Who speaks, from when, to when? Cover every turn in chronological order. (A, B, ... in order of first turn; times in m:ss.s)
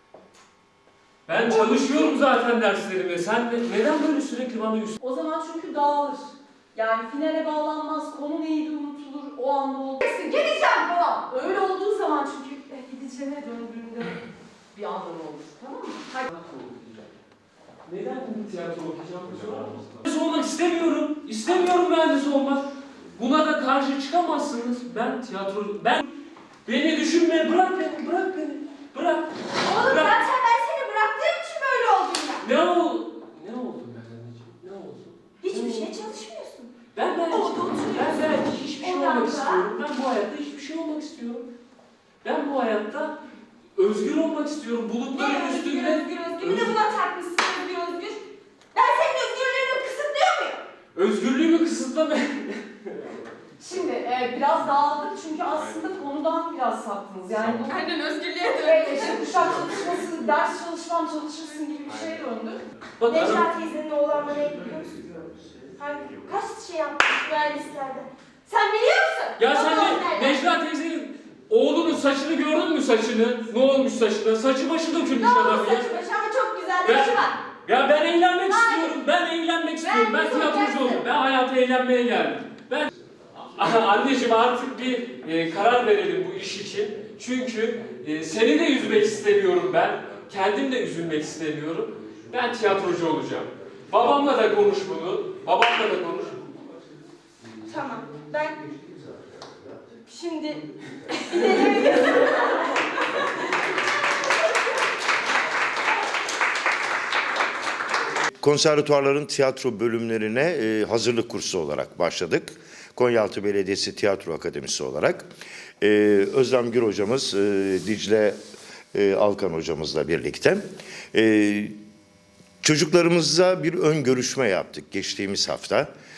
0:01.3-0:05.0 A
0:01.5-0:02.0 B
0:05.0-0:16.2 C
0:16.2-0:17.1 A
0:17.8-0:26.1 A
0:26.6-0:30.2 A
0:29.6-0:32.5 B
0:32.4-0:35.9 A
0:35.4-0:36.7 B
0:36.9-0:41.4 A
0:37.3-0:39.6 B
0:42.2-0:43.2 A
0:43.8-0:46.7 A
0:45.1-0:48.2 B
0:48.7-0:50.6 B
0:50.9-0:52.9 A
0:53.6-0:57.9 C
0:57.6-0:59.6 B
0:58.5-1:02.6 C
0:59.4-0:59.7 A
1:03.0-1:03.4 A
1:03.0-1:10.4 B
1:09.4-1:15.9 A
1:15.1-1:17.4 B
1:16.8-1:36.4 A
1:18.5-1:19.0 B
1:19.8-1:21.0 B
1:37.6-1:38.6 B
1:40.0-1:44.7 B
1:48.4-1:55.3 D
1:55.8-1:58.4 D
1:58.9-2:00.6 D
2:01.1-2:01.7 D
2:02.6-2:05.9 D